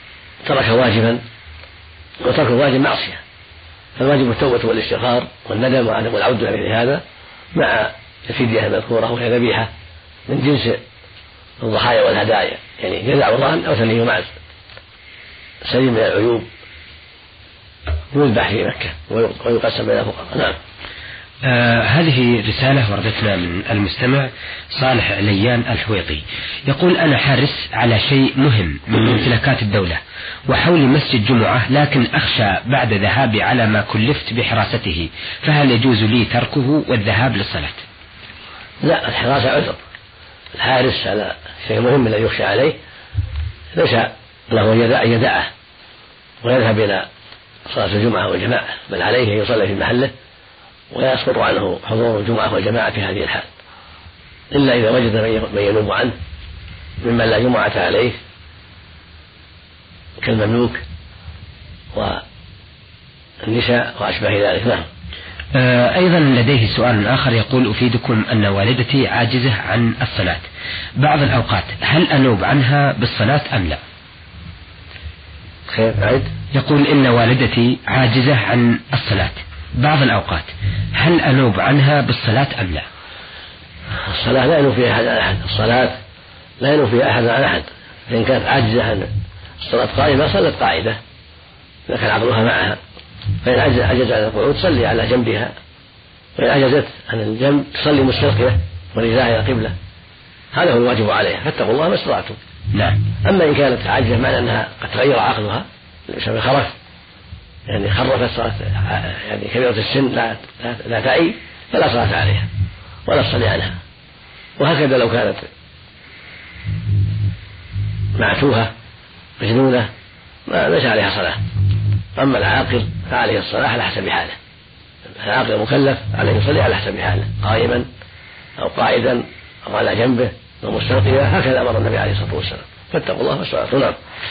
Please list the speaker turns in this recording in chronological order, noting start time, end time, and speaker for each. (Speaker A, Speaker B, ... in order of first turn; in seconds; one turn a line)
Speaker A: 0.4-1.2
Speaker A: 2.2-3.2
Speaker A: 4.0-7.0
Speaker A: 7.5-9.7
Speaker A: 10.3-10.8
Speaker A: 11.6-14.3
Speaker A: 15.6-16.5
Speaker A: 18.1-20.6
Speaker B: 21.4-37.8
Speaker A: 38.8-39.8
Speaker A: 40.5-42.8
Speaker A: 43.7-45.5
Speaker A: 46.4-47.1
Speaker A: 47.7-50.1
Speaker A: 50.9-53.5
Speaker A: 54.5-56.1
Speaker A: 57.0-58.1
Speaker A: 60.2-60.8
Speaker A: 61.9-62.2
Speaker A: 63.4-64.8
Speaker B: 65.5-70.5
Speaker B: 71.0-73.8
Speaker A: 75.7-76.3
Speaker B: 76.5-82.8
Speaker A: 84.1-86.0
Speaker A: 86.6-91.0
Speaker A: 91.9-92.8
Speaker A: 93.4-95.5
Speaker A: 96.4-99.7
Speaker A: 100.5-102.4
Speaker B: 102.7-103.0
Speaker A: 103.2-106.7
Speaker A: 107.7-112.5
Speaker A: 113.0-113.8
Speaker A: 114.6-115.5
Speaker A: 118.2-118.7
Speaker A: 119.4-119.9
Speaker A: 120.5-121.4
Speaker A: 122.2-124.3
Speaker A: 125.2-127.9
Speaker A: 128.6-133.9